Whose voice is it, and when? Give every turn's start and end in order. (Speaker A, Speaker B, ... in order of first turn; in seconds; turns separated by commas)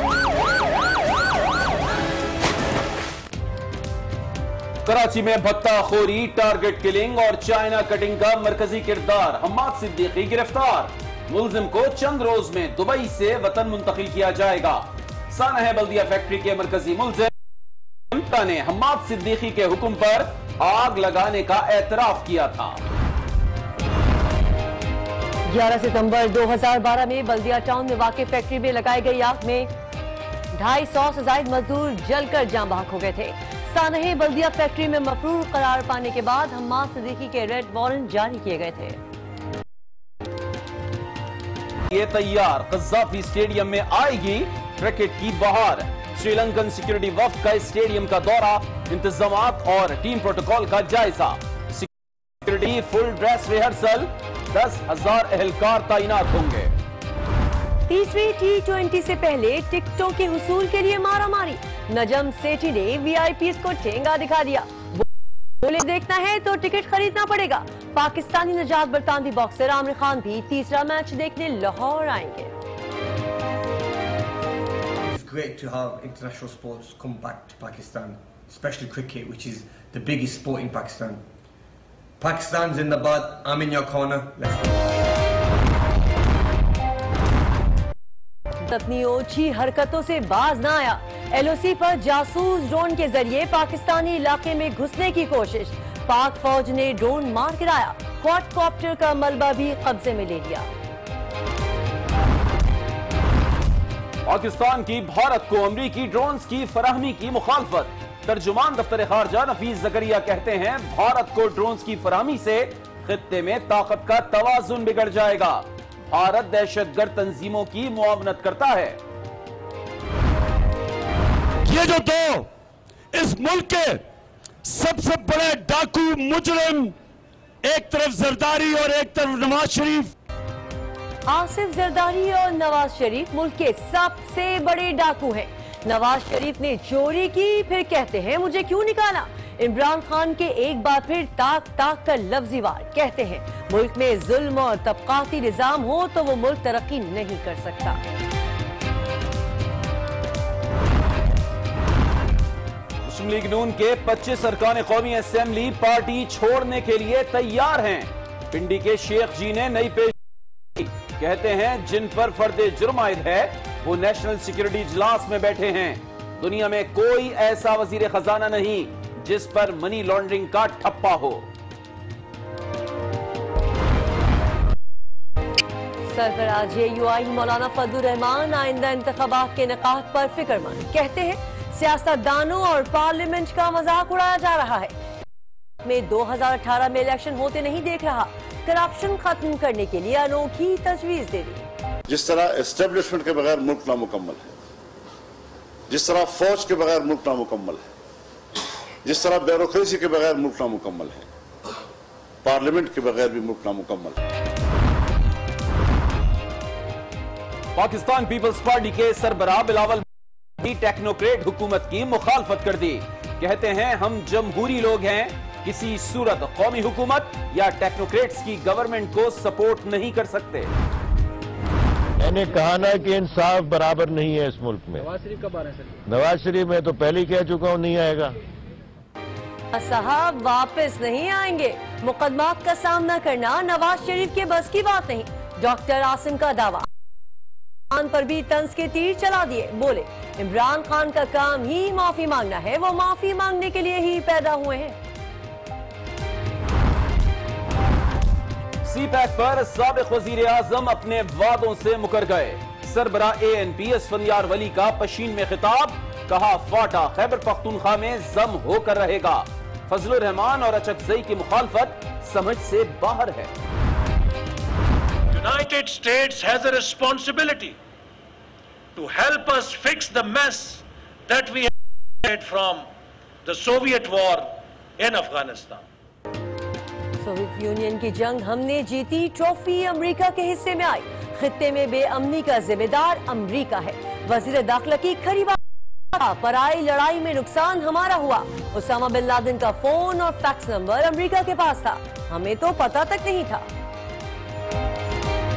Speaker A: 4.8-17.3, Speaker A: 18.1-22.8, Speaker B: 25.5-29.7, Speaker B: 30.5-39.0, Speaker A: 41.9-51.9, Speaker A: 52.4-56.7, Speaker B: 57.9-65.0, Speaker B: 65.6-72.5, Speaker C: 75.0-81.2, Speaker C: 82.2-84.8, Speaker B: 88.6-100.7, Speaker A: 104.2-119.0, Speaker D: 121.6-122.5, Speaker D: 123.1-124.0, Speaker D: 124.6-126.9, Speaker D: 127.6-130.1, Speaker B: 131.3-148.0, Speaker A: 153.1-160.1, Speaker A: 160.7-171.5, Speaker B: 176.1-184.9, Speaker B: 185.8-191.7, Speaker E: 192.1-194.5, Speaker E: 195.9-197.8, Speaker E: 199.0-201.3, Speaker E: 202.4-204.2, Speaker A: 207.7-210.0, Speaker A: 210.6-220.7, Speaker F: 222.2-225.1, Speaker F: 226.1-228.3, Speaker B: 229.7-236.9, Speaker B: 237.9-245.0, Speaker A: 248.8-263.5, Speaker G: 265.3-267.8, Speaker G: 268.9-272.9, Speaker G: 273.4-275.8, Speaker B: 277.2-285.6, Speaker B: 286.1-293.7